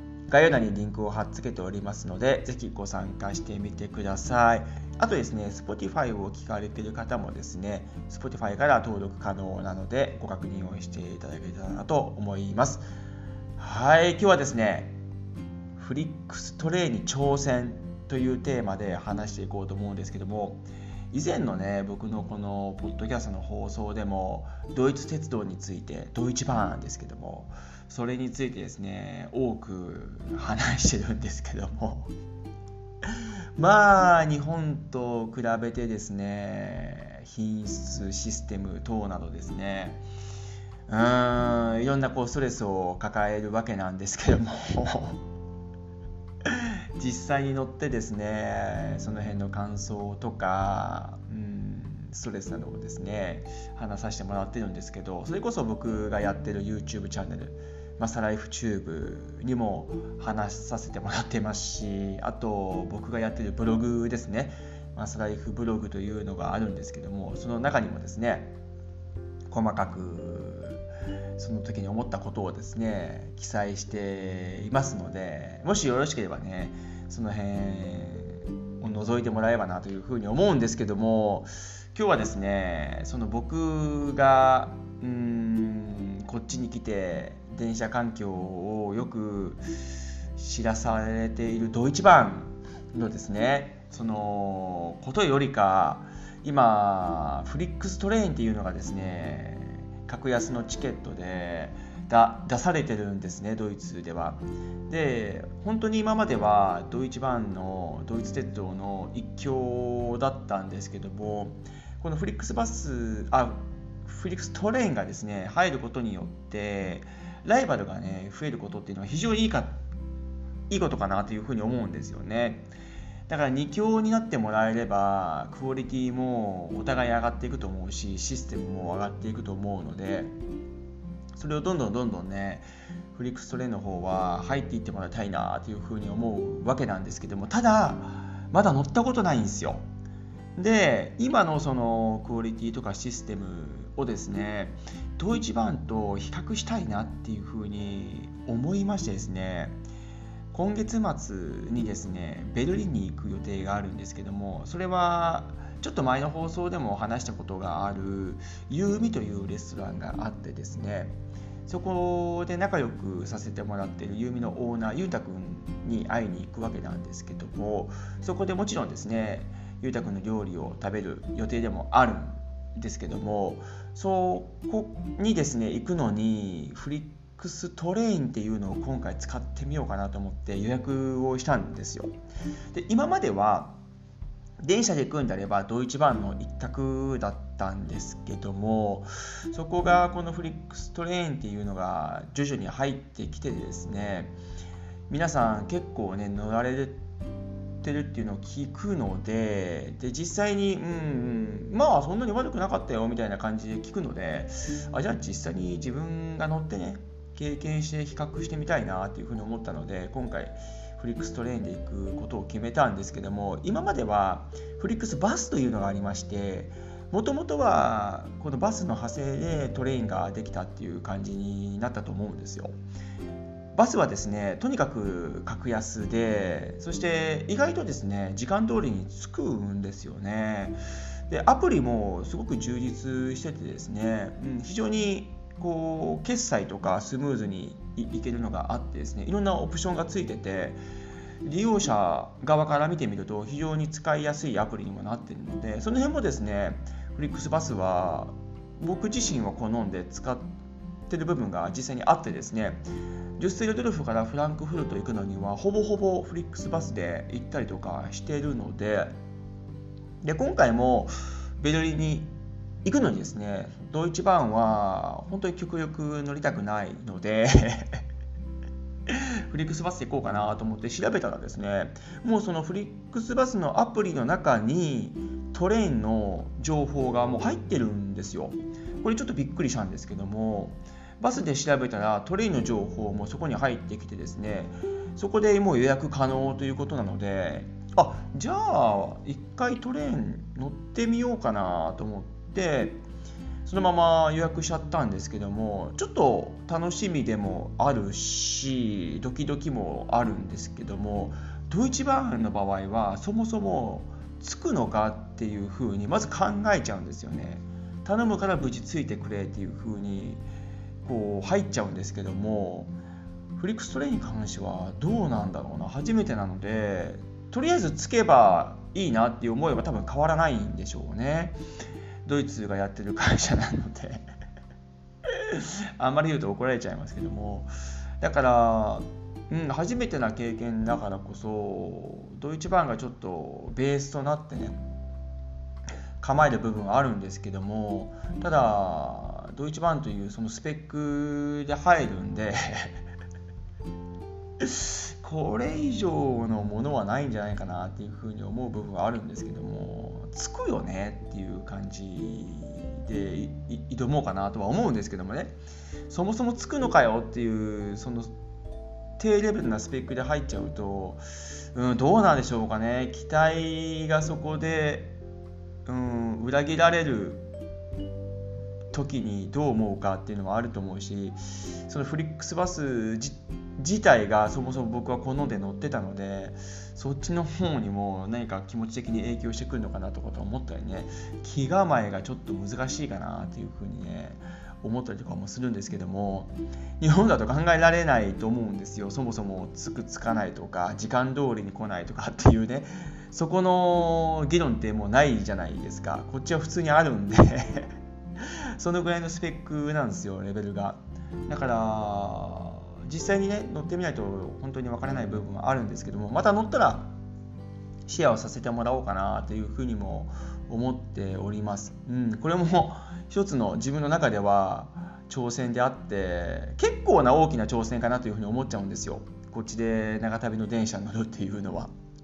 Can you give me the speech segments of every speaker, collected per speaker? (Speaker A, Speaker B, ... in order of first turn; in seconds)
Speaker A: 0.3-12.8, 13.6-15.0, 15.8-32.1, 33.6-40.0, 40.9-45.2, 46.5-68.6, 69.5-70.8, 71.4-89.7, 90.3-119.8, 120.7-122.7, 123.3-130.3, 131.3-139.8, 140.6-149.8, 150.5-182.1, 182.7-183.8, 184.6-194.4, 195.1-197.0, 197.8-222.8, 223.8-240.8, 241.4-250.5, 251.1-252.9, 253.4-259.1, 260.2-262.3, 262.8-268.0, 269.1-293.0, 293.6-310.4, 311.0-312.9, 313.6-321.6, 322.2-324.2, 325.3-334.8, 336.2-343.0, 344.6-355.6, 356.1-358.3, 359.2-365.2, 365.9-367.5, 368.9-397.9, 398.8-407.1, 408.1-421.9